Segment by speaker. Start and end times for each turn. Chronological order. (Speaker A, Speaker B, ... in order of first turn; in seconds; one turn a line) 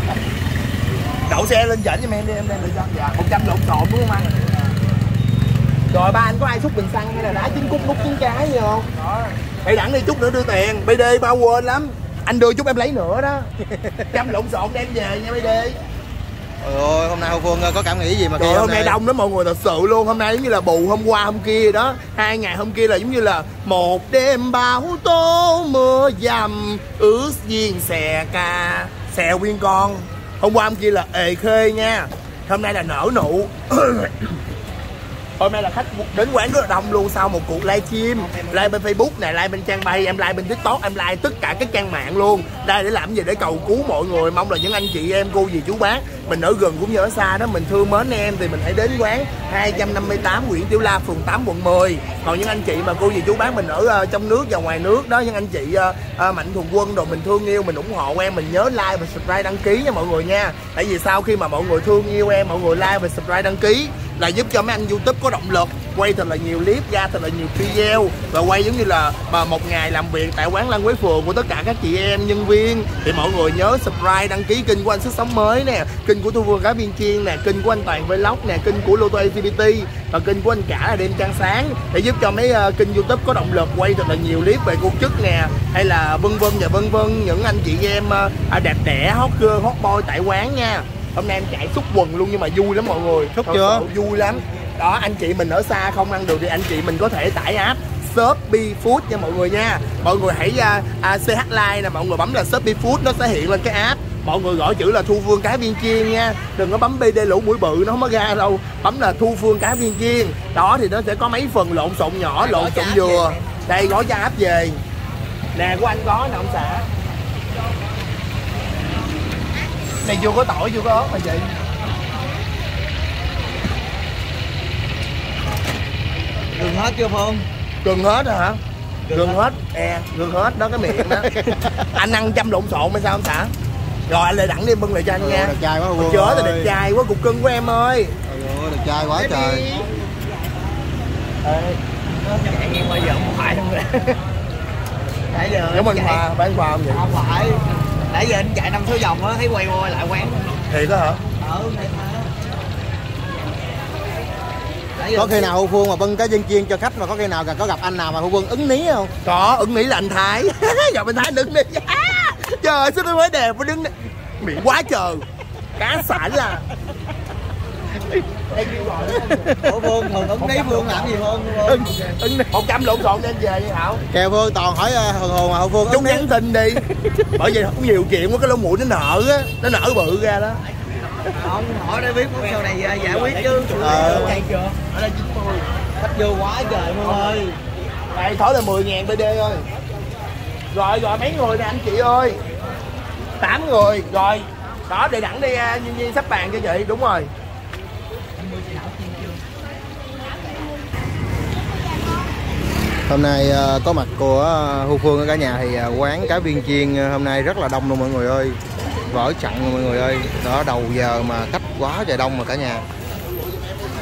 Speaker A: 1.3-4.3
Speaker A: 5.9-8.9
Speaker A: 9.6-13.5
Speaker B: 13.7-14.1
Speaker A: 14.1-15.8
Speaker B: 16.6-19.0
Speaker A: 18.4-34.4
Speaker A: 35.4-114.8
Speaker C: 38.1-38.8
Speaker B: 93.3-93.9
Speaker C: 112.4-113.4
Speaker A: 115.5-116.9
Speaker A: 120.0-121.5
Speaker C: 126.5-127.5
Speaker A: 127.8-128.6
Speaker C: 129.1-129.4
Speaker A: 129.1-131.3
Speaker B: 131.1-131.9
Speaker A: 131.9-133.5
Speaker A: 134.1-138.1
Speaker B: 135.2-136.7
Speaker B: 138.2-139.6
Speaker C: 139.1-139.9
Speaker C: 141.4-144.1
Speaker C: 145.3-146.2
Speaker A: 145.7-147.0
Speaker C: 146.9-150.6
Speaker A: 150.7-151.2
Speaker C: 151.4-152.3
Speaker C: 155.0-155.5
Speaker B: 155.1-159.1
Speaker A: 159.2-165.2
Speaker A: 165.8-166.6
Speaker A: 168.5-169.3
Speaker B: 169.2-169.5
Speaker C: 169.6-171.9
Speaker A: 170.2-174.0
Speaker B: 174.1-176.2
Speaker A: 175.9-176.8
Speaker A: 177.3-180.6
Speaker C: 181.4-184.8
Speaker A: 183.2-185.7
Speaker B: 183.8-184.4
Speaker C: 186.0-187.6
Speaker A: 188.1-189.7
Speaker A: 190.7-192.4
Speaker A: 193.4-197.3
Speaker B: 203.1-212.8